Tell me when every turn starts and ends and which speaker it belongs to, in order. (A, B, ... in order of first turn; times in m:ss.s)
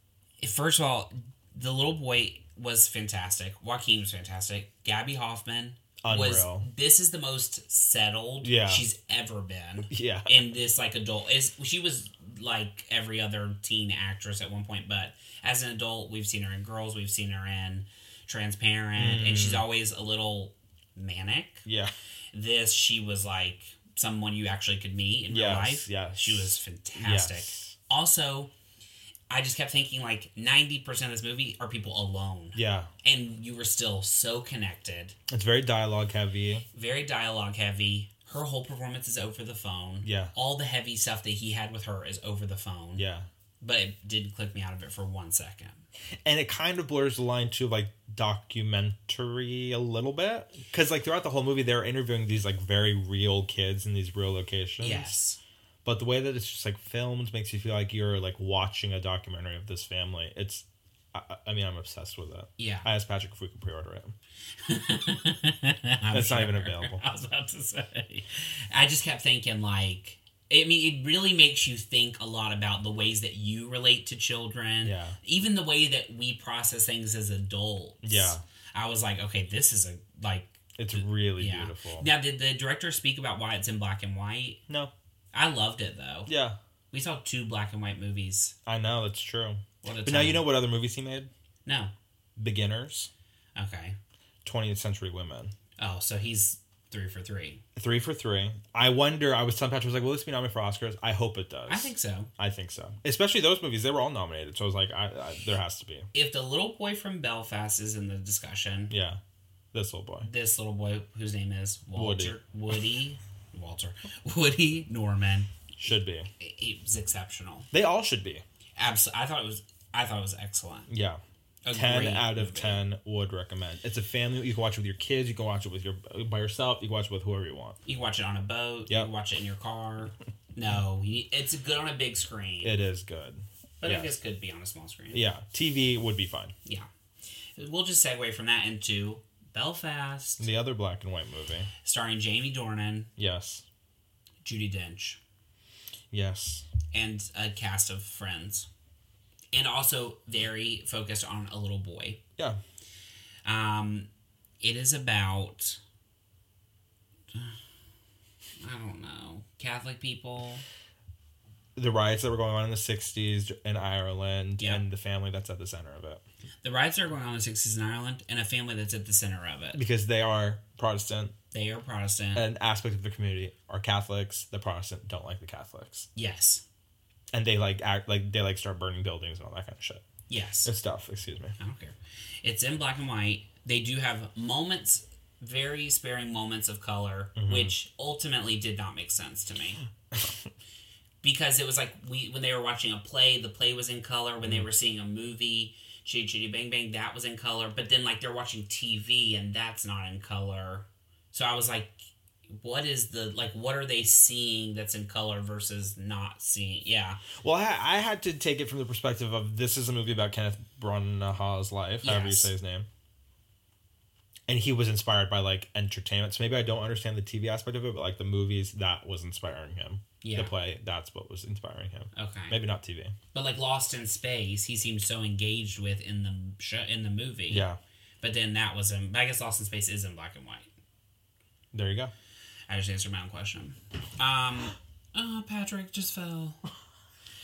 0:00.4-0:21.6 A
0:06.0-0:06.6 B
0:08.4-0:08.8 B
0:09.9-0:10.3 B
0:19.0-0:19.6 B
0:21.6-0:21.9 B
0:22.3-0:28.5 A
0:25.3-0:27.7 B
0:29.3-0:35.2 A
0:32.5-0:32.9 B
0:35.3-0:36.6 B
0:36.7-0:43.0 A
0:40.0-0:40.3 B
0:43.0-0:43.3 B
0:43.6-0:45.8 A
0:46.2-0:55.2 B
0:54.8-0:55.4 A
0:55.8-1:04.1 B
1:02.6-1:02.9 A
1:04.6-1:24.6 A
1:06.1-1:07.0 B
1:14.8-1:15.2 B
1:18.0-1:18.4 B
1:20.8-1:22.1 B
1:25.3-1:26.3 A
1:26.3-1:26.6 B
1:26.9-1:28.5 A
1:28.6-1:31.3 B
1:29.8-1:30.4 A
1:31.6-1:31.9 A
1:32.4-1:33.1 B
1:33.6-1:34.0 A
1:34.4-1:35.5 B
1:35.8-1:37.6 A
1:37.8-1:46.1 B
1:41.7-1:42.3 A
1:46.1-1:48.9 A
1:48.9-1:49.2 B
1:49.7-1:50.3 B
1:50.2-1:55.5 A
1:52.0-1:52.4 B
1:55.8-1:56.3 B
1:56.4-1:57.7 A
1:57.7-1:58.4 B
1:58.8-2:00.9 A
2:00.9-2:01.2 B
2:01.6-2:02.8 A
2:01.7-2:07.8 B
2:07.8-2:12.8 A
2:12.6-2:14.1 B
2:13.8-2:15.2 A
2:15.1-2:16.5 B
2:17.6-2:20.5 A
2:20.4-2:21.7 B
2:21.8-2:23.1 A
2:23.2-2:23.6 B
2:24.4-2:25.2 A
2:26.1-2:26.6 B
2:26.9-2:28.7 A
2:29.5-2:32.2 A
2:33.4-2:34.1 A
2:34.6-2:35.8 A
2:38.6-2:40.6 A
2:41.8-2:46.2 B
2:46.6-2:49.8 A
2:49.7-2:51.3 B
2:51.5-2:52.4 A
2:52.3-2:56.1 B
2:56.1-2:56.6 A
2:57.3-3:00.0 B
3:00.3-3:00.7 A
3:00.6-3:01.5 B
3:01.6-3:09.8 A
3:07.4-3:07.7 B
3:11.2-3:22.0 A
3:22.5-3:27.2 A
3:27.4-3:32.9 B
3:32.0-3:32.5 A
3:34.5-3:43.2 B
3:40.2-3:40.5 A
3:42.1-3:42.6 A
3:43.3-3:47.7 A
3:47.5-3:47.8 B
3:48.2-3:50.7 A
3:51.7-3:52.1 B
3:52.7-3:56.6 A